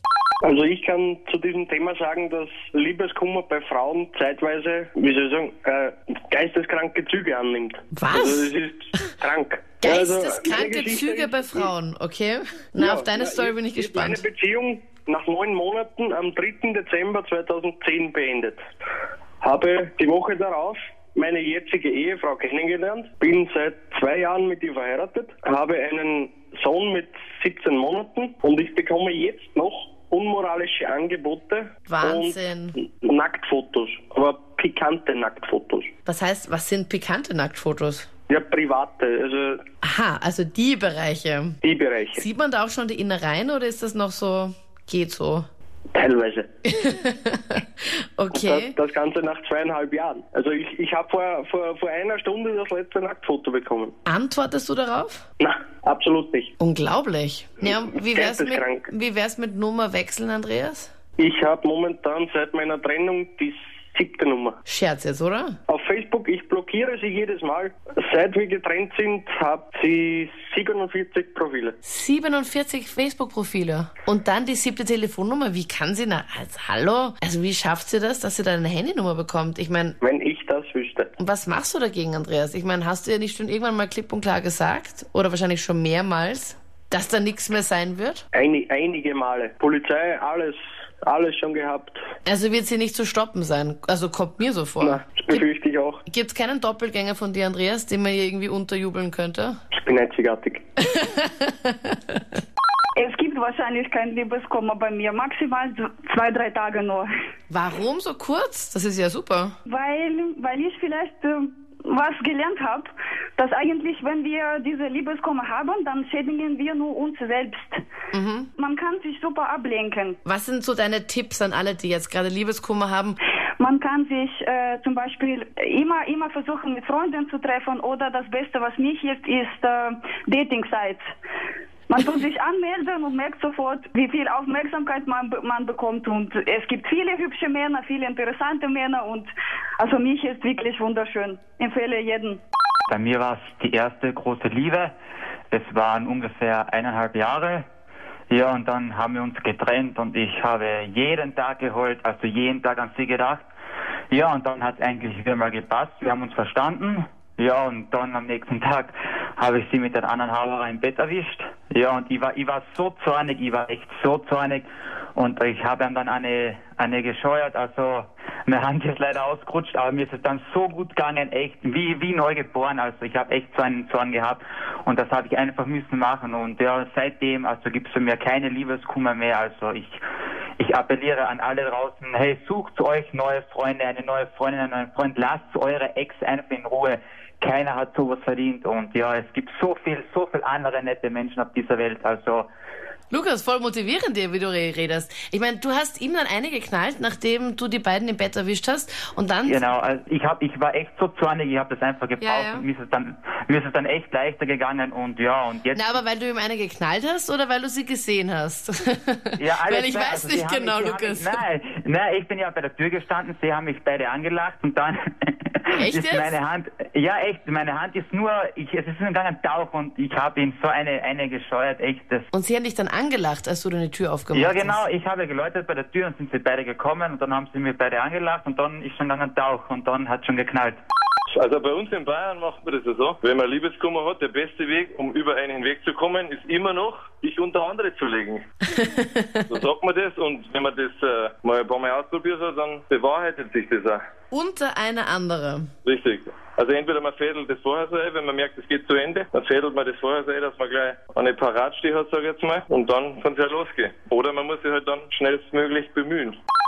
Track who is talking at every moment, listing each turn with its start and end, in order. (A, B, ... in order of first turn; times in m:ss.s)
0:00.4-0:11.7 A
0:07.9-0:09.0 B
0:09.8-0:14.2 B
0:12.8-0:18.6 A
0:19.4-0:35.9 A
0:31.9-0:32.8 B
0:36.0-0:38.1 B
0:38.3-0:39.6 A
0:39.8-0:41.6 B
0:41.6-0:42.2 A
0:42.2-0:45.5 B
0:45.9-0:46.5 A
0:46.7-0:47.6 B
0:48.2-0:48.7 B
0:48.3-0:53.9 A
0:54.0-0:55.2 B
0:55.4-0:56.5 A
0:56.6-1:00.9 B
0:58.1-0:58.9 A
1:01.2-1:04.6 A
1:04.7-1:05.5 B
1:05.7-1:11.8 A
1:11.8-1:20.0 B
1:20.0-1:21.1 A
1:21.2-1:28.2 B
1:28.3-1:32.0 A
1:32.2-1:35.4 B
1:34.8-1:36.0 A
1:36.1-1:39.6 B
1:39.7-1:40.6 A
1:40.9-1:41.9 B
1:43.0-1:47.1 C
1:47.5-1:49.5 B
1:49.7-1:57.8 C
1:58.1-1:58.5 B
1:58.6-2:00.2 C
2:00.2-2:03.2 B
2:03.6-2:11.0 C
2:11.9-2:22.4 C
2:22.9-2:24.9 D
2:25.5-2:27.6 D
2:28.3-2:33.5 D
2:34.1-3:00.0 D
3:00.6-3:12.5 D
3:13.1-3:19.6 B
3:19.4-3:26.0 D
3:22.2-3:22.6 B
3:25.7-3:31.4 B
3:29.4-3:42.3 D
3:35.8-3:36.3 B
3:42.3-3:44.8 B
3:44.3-3:50.8 D
3:51.4-3:58.4 E
3:58.8-3:59.4 B
3:59.5-4:04.0 E
4:04.3-4:05.7 B
4:05.9-4:16.3 E